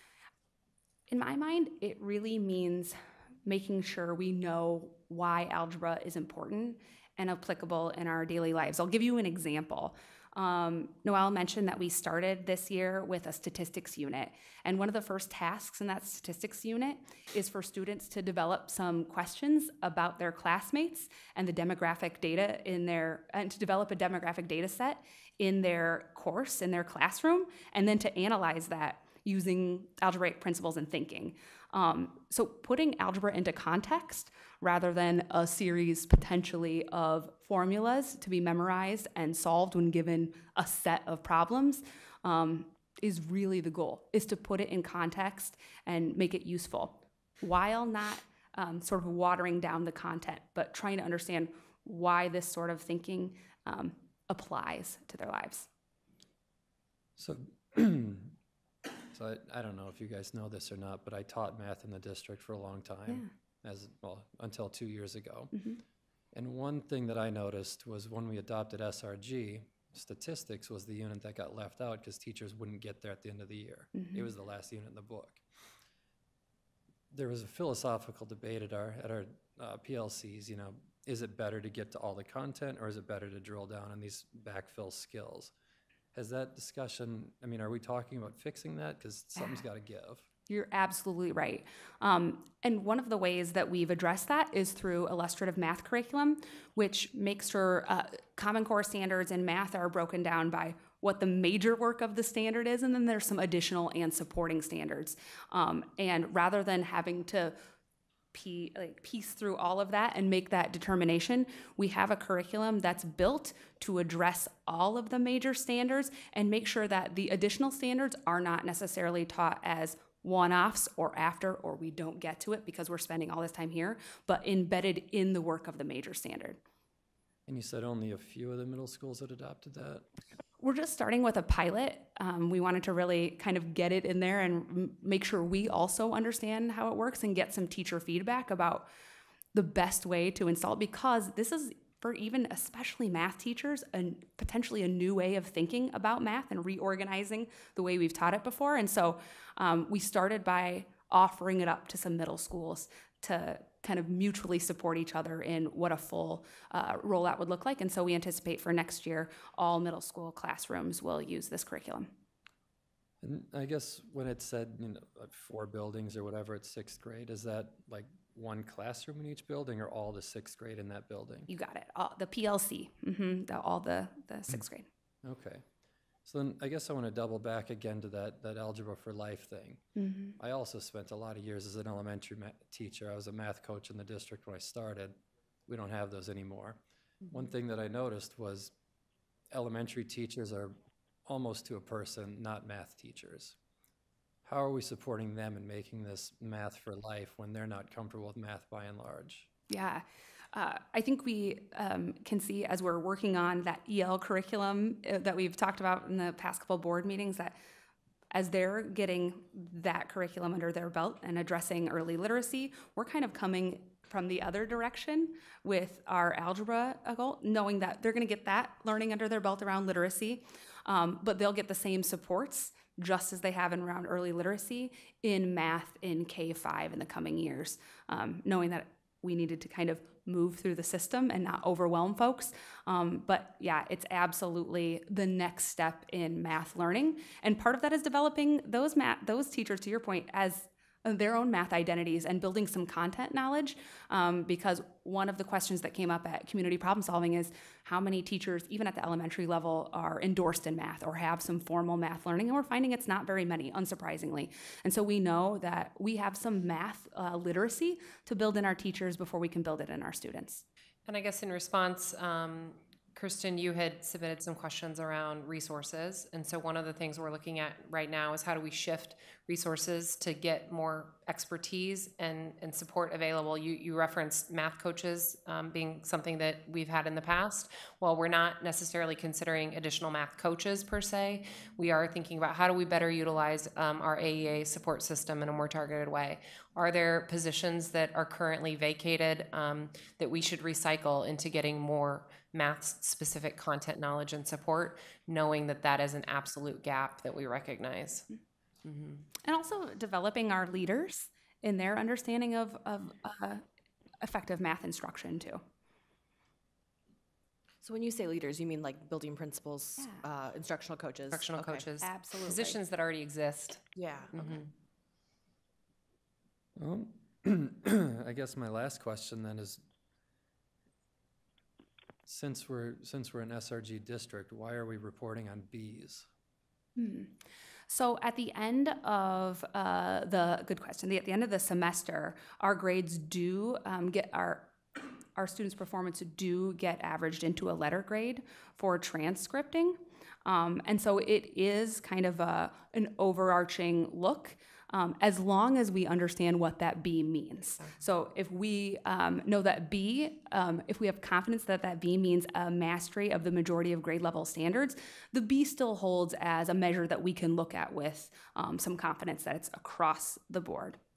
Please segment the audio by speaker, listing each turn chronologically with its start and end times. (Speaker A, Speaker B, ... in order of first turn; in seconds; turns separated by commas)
Speaker A: 1.1-55.7, Speaker B: 57.2-58.4, Speaker B: 59.1-65.5, Speaker A: 65.5-65.8, Speaker B: 66.3-75.4, Speaker A: 73.9-74.3, Speaker B: 77.1-85.5, Speaker B: 86.1-90.2, Speaker A: 89.4-89.6, Speaker A: 90.5-107.6, Speaker A: 108.3-126.6, Speaker B: 127.5-130.1, Speaker A: 130.6-138.9, Speaker A: 139.5-162.1, Speaker B: 163.2-171.5, Speaker A: 171.5-174.9, Speaker B: 175.2-175.6, Speaker B: 176.2-179.8, Speaker A: 180.0-180.4, Speaker B: 180.4-188.7, Speaker B: 189.5-190.8, Speaker B: 191.3-193.6, Speaker B: 194.4-199.5, Speaker A: 199.7-207.6, Speaker A: 208.3-260.6, Speaker C: 261.1-298.3, Speaker C: 298.8-299.3, Speaker A: 299.4-303.6, Speaker A: 304.2-305.6, Speaker D: 307.8-311.9, Speaker A: 310.0-310.2, Speaker C: 311.3-314.7, Speaker A: 312.0-312.8, Speaker D: 314.0-314.6, Speaker B: 316.8-319.8, Speaker B: 322.3-326.3, Speaker A: 327.0-327.3, Speaker A: 327.9-361.0